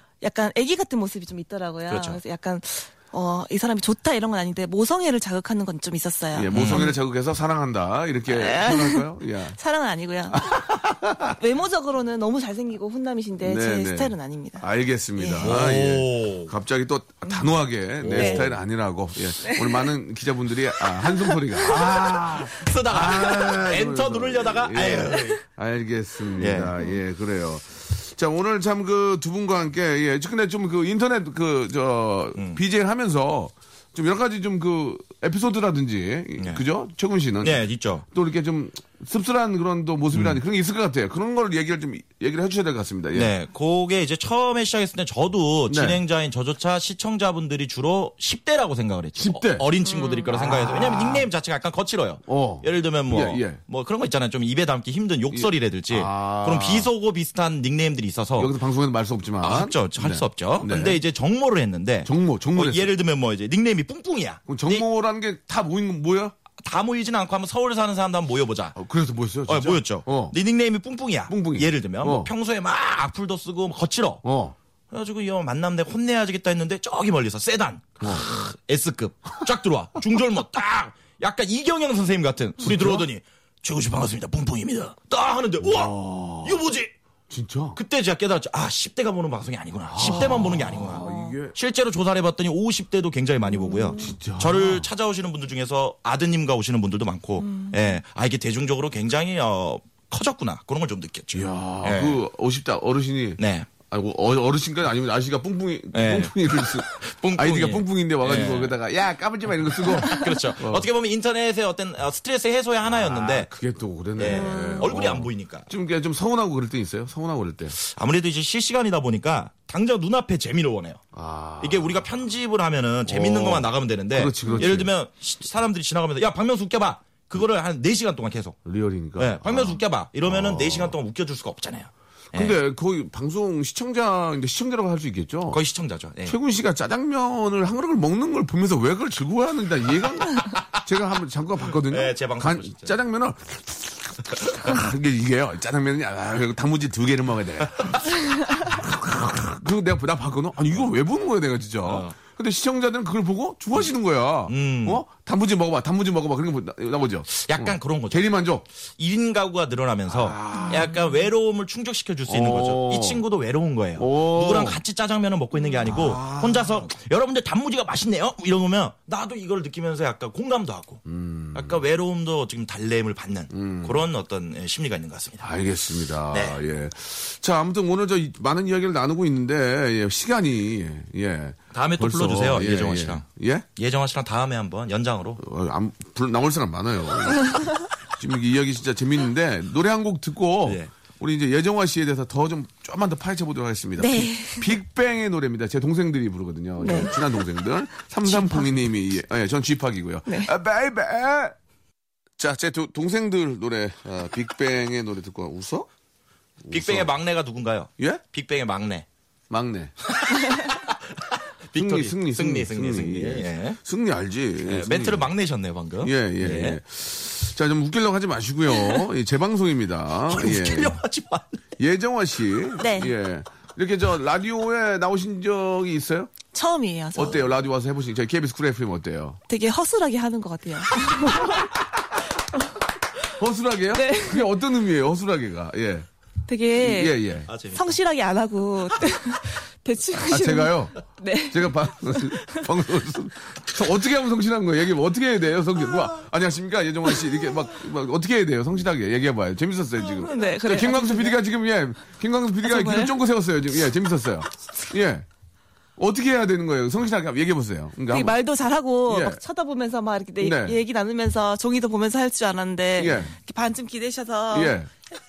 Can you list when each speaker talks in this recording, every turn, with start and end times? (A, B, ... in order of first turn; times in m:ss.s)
0:00.2-0:07.0 A
0:01.9-0:02.2 B
0:06.3-0:09.6 C
0:06.5-0:06.9 B
0:08.3-0:10.6 A
0:10.3-0:11.4 C
0:11.3-0:14.6 A
0:13.4-0:43.3 C
0:15.2-0:15.5 A
0:15.4-0:16.5 B
0:17.2-0:17.5 A
0:18.0-0:18.6 B
0:18.1-0:18.4 A
0:19.4-0:19.9 A
0:21.0-0:21.8 A
0:21.9-0:25.4 B
0:26.4-0:26.8 B
0:32.3-0:32.6 B
0:36.4-0:36.6 B
0:37.4-0:38.0 B
0:40.1-0:40.4 B
0:43.1-0:58.5 B
0:45.7-0:46.0 C
0:49.2-0:49.7 C
0:49.8-0:50.3 A
0:50.3-0:51.3 C
0:52.2-0:53.6 C
0:55.3-0:56.9 C
0:58.4-1:01.0 C
0:59.4-1:04.8 B
1:02.0-1:02.9 C
1:04.5-1:06.3 C
1:06.6-1:08.8 B
1:08.7-1:10.3 C
1:09.5-1:14.2 B
1:11.3-1:12.3 C
1:14.2-1:14.5 C
1:14.9-1:26.9 B
1:22.6-1:23.1 C
1:25.6-1:26.6 C
1:27.3-1:27.8 C
1:27.7-1:42.2 B
1:29.9-1:31.5 C
1:30.9-1:31.3 A
1:33.5-1:34.1 A
1:33.9-1:34.9 C
1:37.4-1:38.0 A
1:41.3-1:50.8 C
1:43.4-1:43.7 B
1:45.9-1:48.8 B
1:49.7-1:53.5 B
1:52.8-1:57.8 C
1:54.2-1:55.7 B
1:54.2-1:54.9 A
1:57.7-2:01.0 B
2:01.1-2:02.1 C
2:01.6-2:08.6 B
2:03.0-2:04.9 C
2:08.6-2:11.0 C
2:09.2-2:12.6 B
2:12.3-2:15.6 C
2:15.5-2:16.4 B
2:16.2-2:38.6 C
2:21.8-2:22.9 B
2:31.8-2:32.2 B
2:34.5-2:35.0 B
2:37.3-2:38.3 B
2:39.0-2:51.0 B
2:40.1-2:40.9 C
2:40.6-2:41.0 A
2:42.3-2:43.2 C
2:44.0-2:44.8 C
2:45.8-2:46.9 C
2:51.0-2:51.8 C
2:51.5-2:55.5 B
2:53.5-2:54.0 C
2:55.4-3:03.6 C
2:56.3-2:56.6 B
3:01.7-3:03.2 B
3:03.8-3:05.4 B
3:05.4-3:21.5 C
3:10.6-3:10.9 B
3:14.0-3:14.8 A
3:16.8-3:17.2 A
3:18.2-3:18.7 A
3:22.4-3:25.9 C
3:26.6-3:27.1 C
3:26.7-3:29.0 B
3:29.5-3:29.9 C
3:30.0-3:33.8 B
3:31.7-3:35.3 C
3:34.6-3:36.8 B
3:36.0-3:41.0 C
3:40.3-3:41.6 B
3:41.8-3:46.3 C
3:42.8-3:43.1 A
3:46.5-3:47.5 A
3:47.1-3:49.4 C
3:49.5-3:51.7 A
3:51.2-3:51.6 C
3:53.4-3:56.1 C
3:53.9-3:54.5 A
3:56.5-4:02.7 A
3:56.8-3:57.5 C
3:57.5-3:58.0 B
4:00.2-4:00.9 C
4:01.5-4:15.2 C
4:10.0-4:11.4 A
4:12.6-4:13.2 A
4:16.0-4:18.3 C
4:18.1-4:24.9 A
4:19.1-4:19.4 C
4:20.4-4:20.8 C
4:23.0-4:23.3 C
4:24.5-4:24.9 C